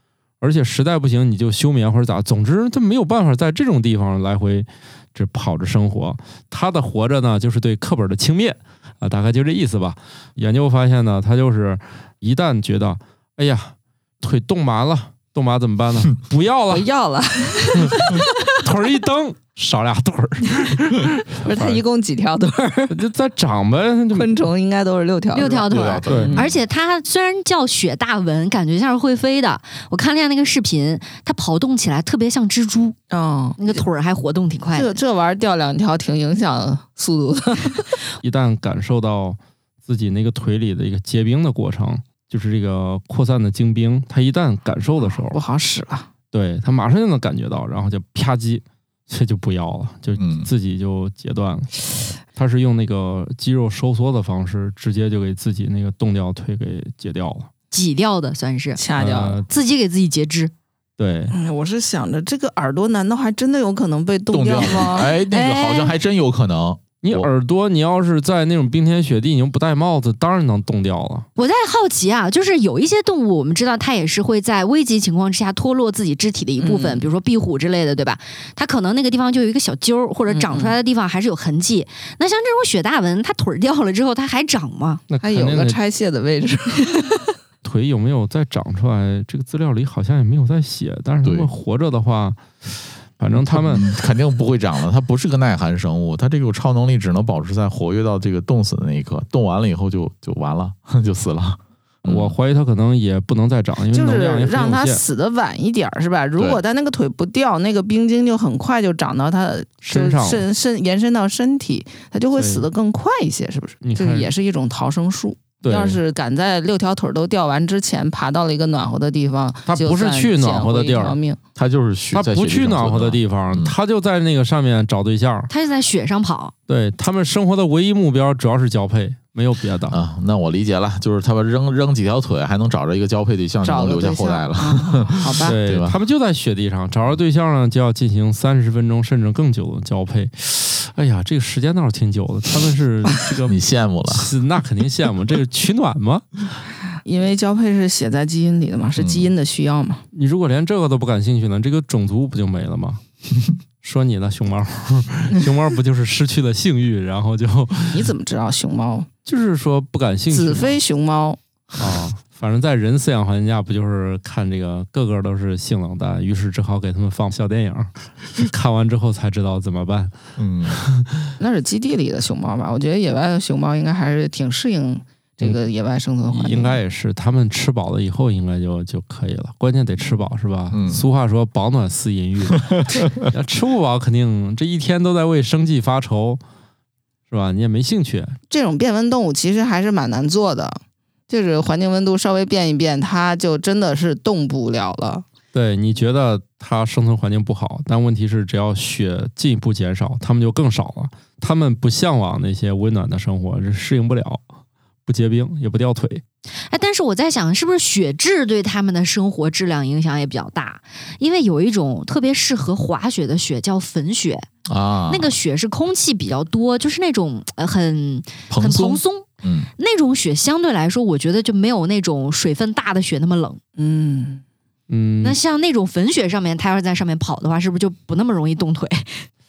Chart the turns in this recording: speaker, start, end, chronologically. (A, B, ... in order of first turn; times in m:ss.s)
0:00.4-0:16.9 A
0:16.7-0:18.5 B
0:17.8-0:21.8 A
0:21.4-0:23.0 B
0:22.9-0:24.4 A
0:24.1-0:26.4 B
0:25.3-0:33.0 C
0:25.7-0:26.6 D
0:26.1-0:26.4 A
0:33.1-0:33.8 B
0:33.6-0:35.0 C
0:34.7-0:37.9 B
0:38.2-0:45.4 A
0:45.0-0:46.1 B
0:46.3-0:57.5 A
0:50.2-0:50.5 D
0:57.7-0:58.8 C
0:58.8-0:59.4 B
0:59.0-0:59.5 A
0:59.5-1:00.5 C
1:01.0-1:01.4 A
1:01.3-1:05.1 B
1:04.3-1:07.3 D
1:05.3-1:05.9 C
1:07.0-1:11.3 A
1:11.4-1:25.0 C
1:16.6-1:17.1 B
1:20.3-1:20.8 B
1:25.1-1:25.8 A
1:25.2-1:27.1 B
1:27.6-1:33.8 A
1:31.2-1:31.5 D
1:33.5-1:42.4 D
1:42.0-1:45.0 A
1:43.9-2:01.4 B
1:49.8-1:50.4 A
1:52.4-1:52.7 A
1:53.8-1:54.3 A
1:55.6-1:56.0 A
1:59.7-2:01.2 A
2:01.6-2:03.8 D
2:02.1-2:05.5 A
2:05.5-2:06.5 C
2:06.7-2:10.0 A
2:09.9-2:16.0 D
2:13.6-2:15.6 B
2:15.4-2:23.6 A
2:23.5-2:24.3 D
2:24.1-2:26.6 A
2:27.0-2:30.0 B
2:29.0-2:29.3 D
2:30.1-2:33.0 A
2:33.8-2:38.1 A
2:37.9-2:39.1 B
2:39.3-2:40.8 A
2:40.3-2:41.4 B
2:41.8-2:51.3 A
2:50.4-2:50.8 D
2:51.4-2:56.8 B
2:56.3-3:06.4 A
3:00.7-3:01.0 D
3:02.7-3:03.1 D
3:07.3-3:08.4 A
3:08.5-3:15.2 B
3:15.5-3:24.4 A
3:25.1-3:26.2 A
3:26.7-3:34.5 C
3:34.7-3:35.3 D
3:35.1-3:43.6 C
3:38.5-3:39.7 D
3:43.8-3:44.4 B
3:44.9-3:45.4 A
3:45.2-3:49.2 C